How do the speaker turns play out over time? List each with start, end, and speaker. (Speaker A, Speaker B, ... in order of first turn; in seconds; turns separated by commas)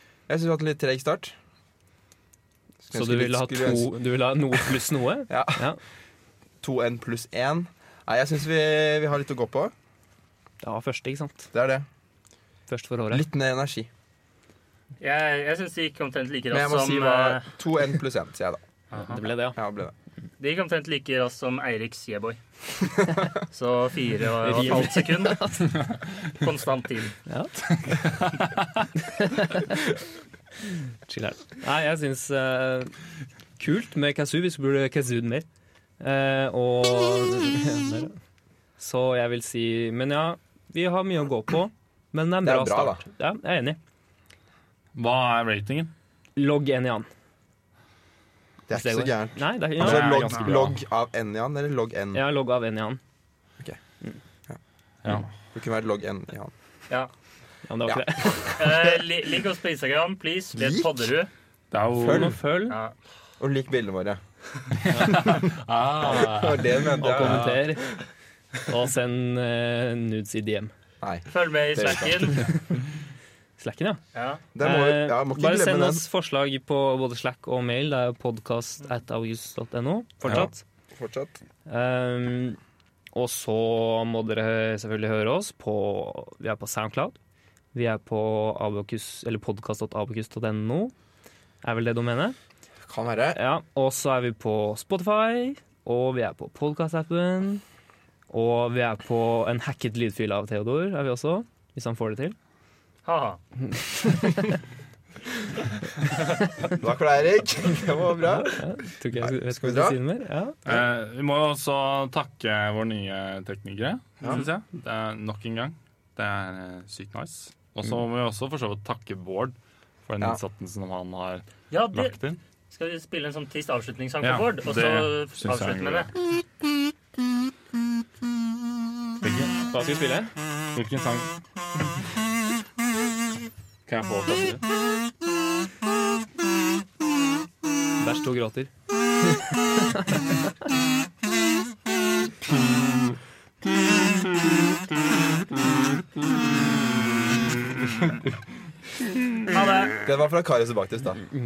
Speaker A: 0.3-1.4, Speaker A: 2.8-3.9, Speaker B: 2.9-5.8, Speaker A: 5.3-5.7, Speaker A: 6.6-9.7, Speaker B: 10.6-11.5, Speaker A: 11.5-11.9, Speaker B: 12.7-13.3, Speaker A: 13.1-13.9, Speaker C: 15.0-17.5, Speaker A: 16.5-18.6, Speaker C: 18.9-19.2, Speaker B: 19.0-19.6, Speaker A: 19.6-19.9, Speaker C: 20.4-22.4, Speaker C: 23.5-27.2, Speaker B: 24.4-25.8, Speaker B: 27.3-27.5, Speaker D: 27.7-28.9, Speaker B: 29.2-29.8, Speaker B: 31.1-32.9, Speaker B: 33.6-35.5, Speaker B: 36.0-38.1, Speaker B: 38.8-43.8, Speaker A: 42.4-43.0, Speaker D: 45.0-45.9, Speaker B: 46.4-47.1, Speaker A: 48.7-52.2, Speaker B: 48.7-50.2, Speaker D: 49.8-50.8, Speaker B: 52.1-53.0, Speaker A: 54.5-56.5, Speaker D: 55.0-55.3, Speaker B: 57.7-58.6, Speaker A: 57.9-59.0, Speaker C: 58.5-61.3, Speaker A: 60.5-61.1, Speaker D: 61.7-62.4, Speaker A: 62.0-62.4, Speaker B: 62.0-62.8, Speaker C: 62.7-62.9, Speaker A: 63.4-64.2, Speaker D: 64.9-67.6, Speaker A: 65.0-65.5, Speaker A: 66.0-67.6, Speaker B: 67.0-68.0, Speaker B: 68.7-70.7, Speaker A: 71.0-72.3, Speaker C: 71.3-72.5, Speaker B: 72.3-72.6, Speaker B: 73.6-74.0, Speaker C: 74.2-74.4, Speaker A: 74.5-76.1, Speaker B: 74.6-80.6, Speaker A: 80.3-81.3, Speaker B: 81.7-82.6, Speaker B: 83.1-87.2, Speaker B: 87.7-90.9, Speaker B: 91.6-92.4, Speaker A: 92.9-93.4, Speaker B: 93.3-97.6, Speaker B: 98.3-102.4, Speaker C: 103.0-103.4, Speaker B: 104.0-104.5, Speaker A: 106.7-108.6, Speaker B: 108.5-110.6, Speaker A: 109.2-110.0, Speaker D: 110.7-119.5, Speaker D: 120.1-122.4, Speaker C: 121.7-122.2, Speaker C: 122.7-126.1, Speaker D: 124.2-126.1, Speaker D: 129.2-129.6, Speaker B: 129.7-130.3, Speaker D: 130.8-131.3, Speaker D: 133.9-134.6, Speaker B: 138.0-138.7, Speaker B: 139.8-140.2, Speaker C: 149.5-150.0, Speaker A: 150.0-151.3